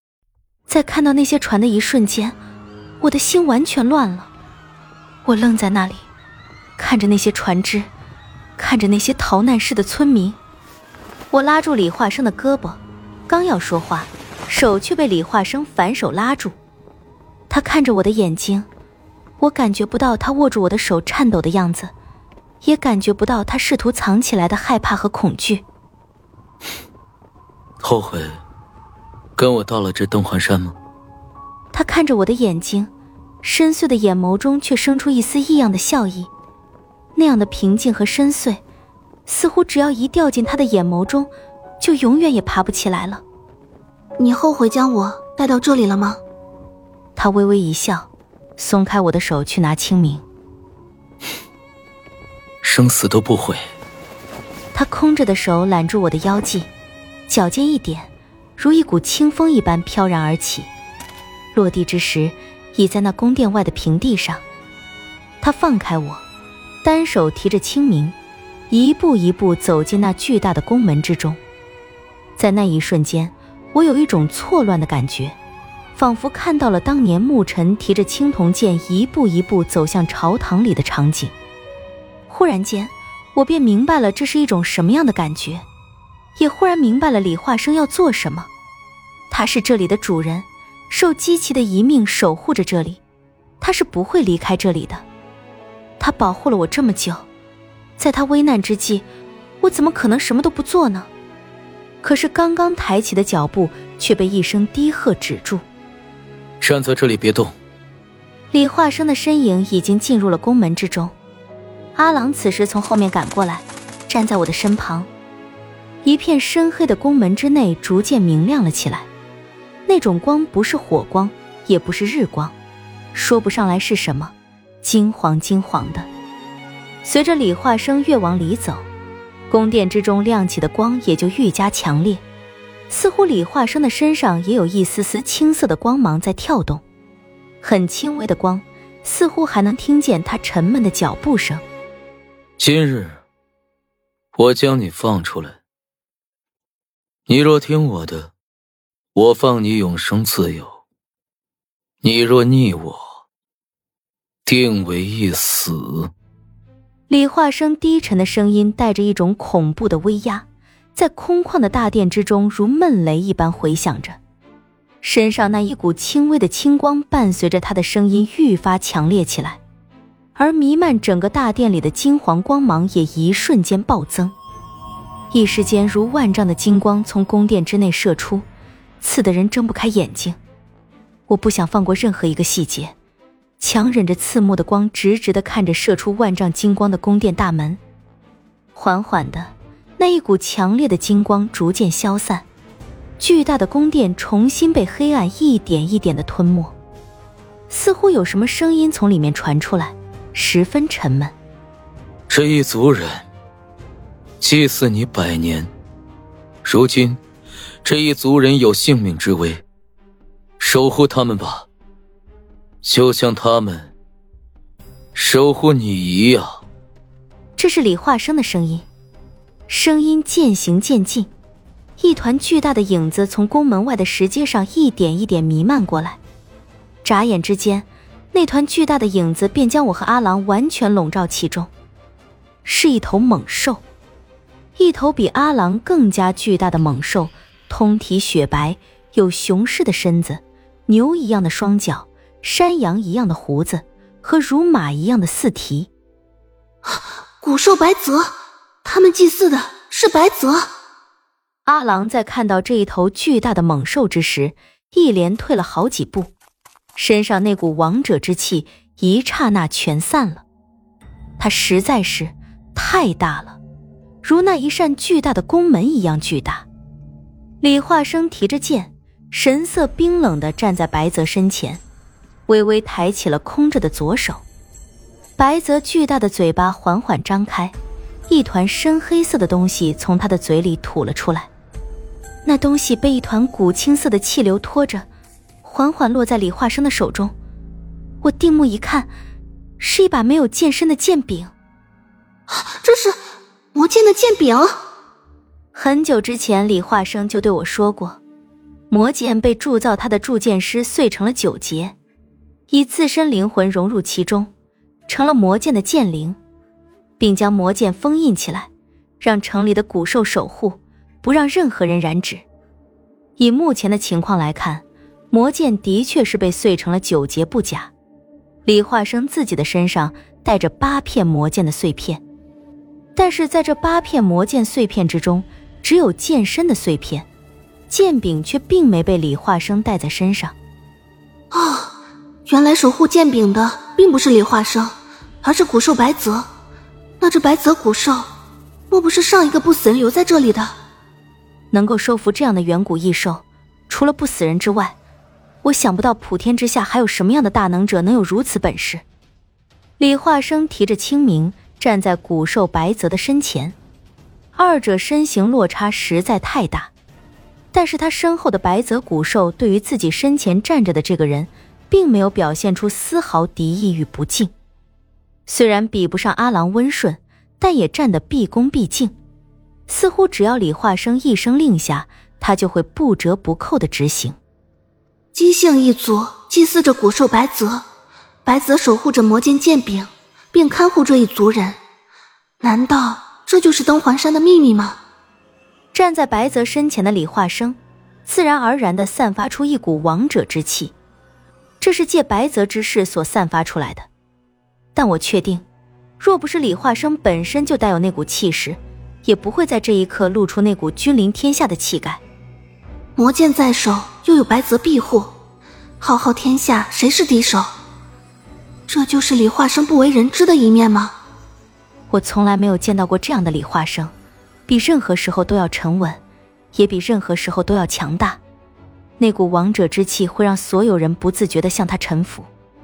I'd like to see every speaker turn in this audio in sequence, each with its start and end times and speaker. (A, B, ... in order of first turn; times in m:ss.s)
0:00.7-0:02.4 A
0:03.0-0:04.3 A
0:05.3-0:06.1 A
0:06.8-0:07.9 A
0:08.6-0:10.4 A
0:11.3-0:16.6 A
0:17.5-0:18.7 A
0:19.4-0:21.9 A
0:22.6-0:25.6 A
0:27.8-0:28.4 B
0:29.4-0:30.8 B
0:31.7-0:32.9 A
0:33.4-0:36.3 A
0:37.2-0:38.6 A
0:39.3-0:43.2 A
0:44.2-0:46.2 C
0:47.2-0:50.2 A
0:52.6-0:53.6 B
0:54.7-0:56.7 A
0:57.3-1:00.7 A
1:01.5-1:04.4 A
1:05.4-1:06.2 A
1:06.8-1:08.2 A
1:08.7-1:11.4 A
1:12.4-1:15.4 A
1:16.0-1:21.3 A
1:22.3-1:25.7 A
1:26.4-1:28.5 A
1:29.3-1:33.0 A
1:33.6-1:35.0 A
1:36.0-1:37.2 A
1:38.0-1:39.0 A
1:39.6-1:41.1 A
1:42.0-1:45.6 A
1:46.6-1:47.5 B
1:48.5-1:51.1 A
1:52.0-1:55.1 A
1:56.0-1:59.1 A
1:59.9-2:02.6 A
2:03.1-2:06.1 A
2:07.0-2:08.9 A
2:09.5-2:12.2 A
2:12.9-2:16.8 A
2:17.6-2:21.6 A
2:22.6-2:23.2 B
2:24.3-2:25.6 B
2:27.3-2:28.3 B
2:29.2-2:30.8 B
2:32.0-2:33.0 B
2:34.5-2:36.1 B
2:37.1-2:44.2 A
2:45.0-2:49.6 A
2:50.4-2:54.3 A
2:55.3-2:58.5 A
2:59.0-3:00.4 A
3:01.3-3:02.9 A
3:03.6-3:07.8 A
3:08.8-3:12.5 A
3:13.2-3:16.7 A
3:17.7-3:21.3 A
3:22.3-3:23.3 B
3:24.4-3:25.7 B
3:26.6-3:27.2 B
3:27.8-3:29.6 B
3:30.6-3:31.7 B
3:32.8-3:33.9 B
3:35.2-3:36.6 B
3:37.6-3:38.9 A
3:39.7-3:41.3 A
3:42.0-3:46.2 A
3:47.0-3:51.7 A
3:52.6-3:53.8 A
3:54.8-4:05.9 A
4:06.9-4:10.7 C
4:11.7-4:16.3 A
4:17.0-4:20.4 A
4:21.4-4:23.6 A
4:24.2-4:26.7 A
4:27.6-4:31.8 A
4:32.5-4:34.4 A
4:35.4-4:37.8 A
4:38.3-4:41.5 A
4:42.4-4:45.0 A
4:45.6-4:47.3 A
4:48.2-4:49.1 A
4:49.8-4:51.5 A
4:52.5-4:53.2 C
4:53.8-4:54.8 C
4:55.7-4:58.2 A
4:58.9-5:02.0 A
5:02.7-5:04.5 A
5:05.1-5:06.4 A
5:07.2-5:08.7 A
5:09.2-5:12.4 A
5:13.4-5:17.9 A
5:18.6-5:22.2 A
5:23.2-5:27.3 A
5:27.9-5:30.6 A
5:31.5-5:31.9 C
5:32.5-5:36.5 C
5:37.2-5:38.3 C
5:38.9-5:40.8 C
5:41.7-5:45.0 A
5:45.6-5:49.0 A
5:50.0-5:53.8 A
5:54.6-5:56.9 A
5:57.7-6:04.5 A
6:05.5-6:09.2 A
6:09.9-6:14.4 A
6:15.4-6:17.9 C
6:18.5-6:21.8 C
6:22.6-6:25.0 C
6:25.9-6:30.9 A
6:31.8-6:34.1 A
6:35.0-6:35.6 A
6:36.2-6:42.2 A
6:43.2-6:45.3 C
6:46.0-6:47.7 C
6:48.9-6:51.2 C
6:52.1-6:54.1 A
6:54.7-6:56.2 A
6:56.7-6:58.4 A
6:59.2-7:02.5 A